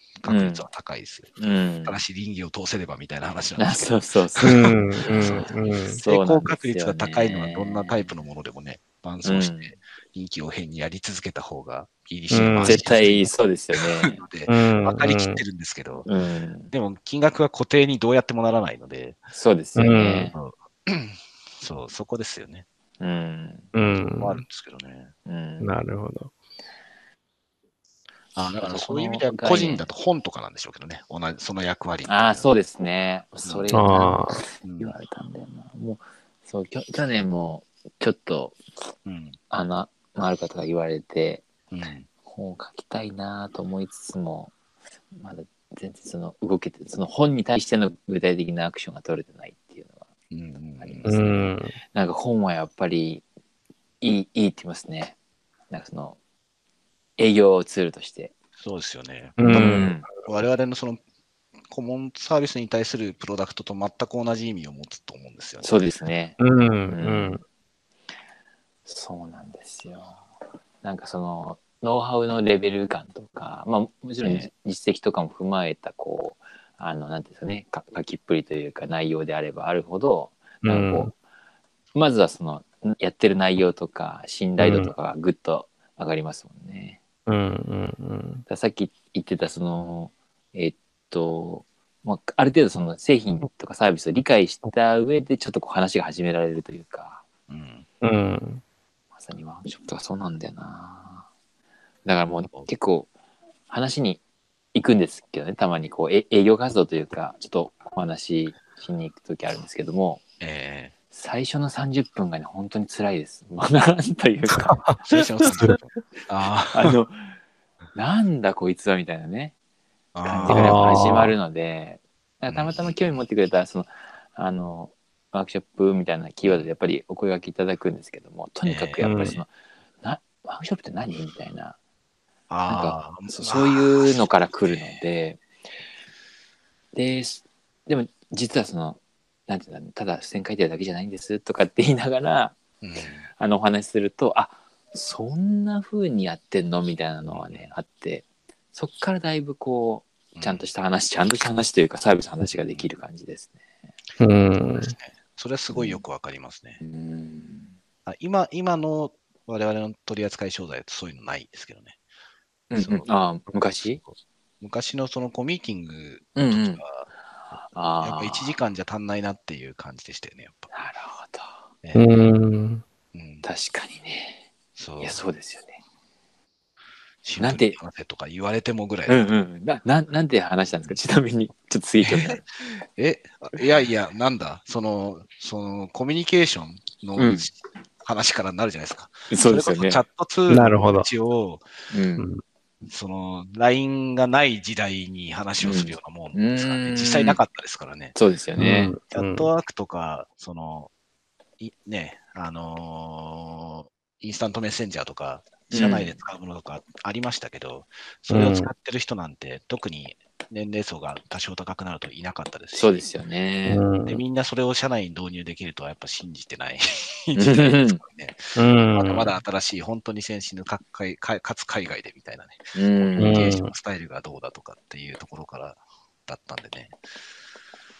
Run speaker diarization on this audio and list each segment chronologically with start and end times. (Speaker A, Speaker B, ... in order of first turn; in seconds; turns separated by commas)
Speaker A: 0.2-5.5, Speaker B: 0.3-0.7, Speaker B: 1.4-2.0, Speaker B: 3.6-8.1, Speaker C: 4.4-6.0, Speaker A: 6.0-16.1, Speaker B: 9.2-9.8, Speaker C: 12.3-12.9, Speaker B: 12.6-14.2, Speaker C: 14.5-15.4, Speaker B: 16.1-16.7, Speaker A: 16.7-19.2, Speaker B: 19.3-20.4, Speaker C: 19.8-20.3, Speaker A: 20.3-22.6, Speaker B: 23.0-23.7, Speaker C: 23.7-24.4, Speaker A: 24.1-25.1, Speaker B: 25.3-25.7, Speaker C: 25.6-26.3, Speaker A: 28.4-32.5, Speaker B: 28.6-29.9, Speaker B: 32.1-38.6, Speaker A: 33.4-33.8, Speaker C: 33.7-34.4, Speaker A: 34.6-34.9, Speaker A: 39.1-39.4, Speaker B: 39.5-41.5, Speaker A: 41.7-42.1, Speaker B: 42.2-44.5, Speaker B: 45.1-50.1, Speaker A: 50.3-51.5, Speaker B: 50.8-51.4, Speaker C: 51.1-51.8, Speaker B: 51.9-53.2, Speaker B: 54.0-55.2, Speaker B: 55.7-56.2, Speaker B: 57.2-58.3, Speaker A: 58.6-61.0, Speaker C: 59.4-59.9, Speaker B: 59.4-60.1, Speaker A: 61.7-65.8, Speaker B: 65.6-67.4, Speaker C: 66.4-67.4, Speaker B: 68.9-70.2, Speaker B: 70.8-81.1, Speaker C: 80.6-81.1, Speaker B: 81.9-87.0, Speaker C: 84.6-84.9, Speaker C: 87.3-88.4, Speaker B: 88.5-97.2, Speaker A: 97.5-97.9, Speaker C: 98.0-98.6, Speaker B: 99.1-101.3, Speaker B: 102.0-103.1, Speaker B: 103.7-104.2, Speaker B: 104.7-110.2, Speaker A: 110.4-110.9, Speaker B: 111.1-115.2, Speaker A: 115.1-117.0, Speaker B: 116.7-117.3, Speaker B: 117.9-119.6, Speaker A: 120.1-121.3, Speaker B: 120.2-129.5, Speaker C: 120.5-121.4, Speaker A: 122.5-123.2, Speaker A: 126.4-126.7, Speaker A: 128.6-129.2, Speaker C: 129.0-129.4, Speaker B: 130.0-131.8, Speaker A: 132.5-135.0, Speaker B: 132.7-135.4, Speaker B: 136.9-142.6, Speaker A: 142.8-143.3, Speaker B: 143.4-153.6, Speaker A: 147.3-147.7, Speaker A: 150.4-150.7, Speaker A: 152.6-152.9, Speaker C: 154.2-154.9, Speaker A: 154.6-156.8, Speaker B: 155.7-156.0, Speaker B: 156.8-157.8, Speaker A: 158.1-161.9, Speaker B: 162.7-164.0, Speaker A: 162.8-163.1, Speaker A: 163.8-167.1, Speaker B: 166.4-166.8, Speaker B: 167.6-168.6, Speaker A: 168.0-170.7, Speaker B: 170.7-171.7, Speaker A: 171.8-172.3, Speaker C: 171.9-172.8, Speaker A: 173.1-173.4, Speaker B: 173.4-174.5, Speaker A: 174.8-175.2, Speaker B: 175.0-175.8, Speaker A: 177.2-179.2, Speaker B: 177.4-177.8, Speaker B: 179.1-182.4, Speaker A: 182.0-191.7, Speaker B: 187.2-187.5, Speaker B: 189.3-190.0, Speaker C: 190.5-191.1, Speaker B: 191.9-192.3, Speaker C: 192.2-192.4, Speaker A: 192.9-198.1, Speaker B: 195.6-197.4, Speaker B: 198.1-199.0, Speaker C: 198.6-199.5, Speaker A: 199.1-200.9, Speaker A: 201.6-213.0, Speaker B: 205.7-206.2, Speaker C: 208.3-208.7, Speaker B: 212.7-213.8, Speaker C: 213.7-214.2, Speaker A: 214.1-226.9, Speaker B: 217.3-218.0, Speaker C: 218.6-219.3, Speaker B: 222.8-223.6, Speaker C: 223.2-223.7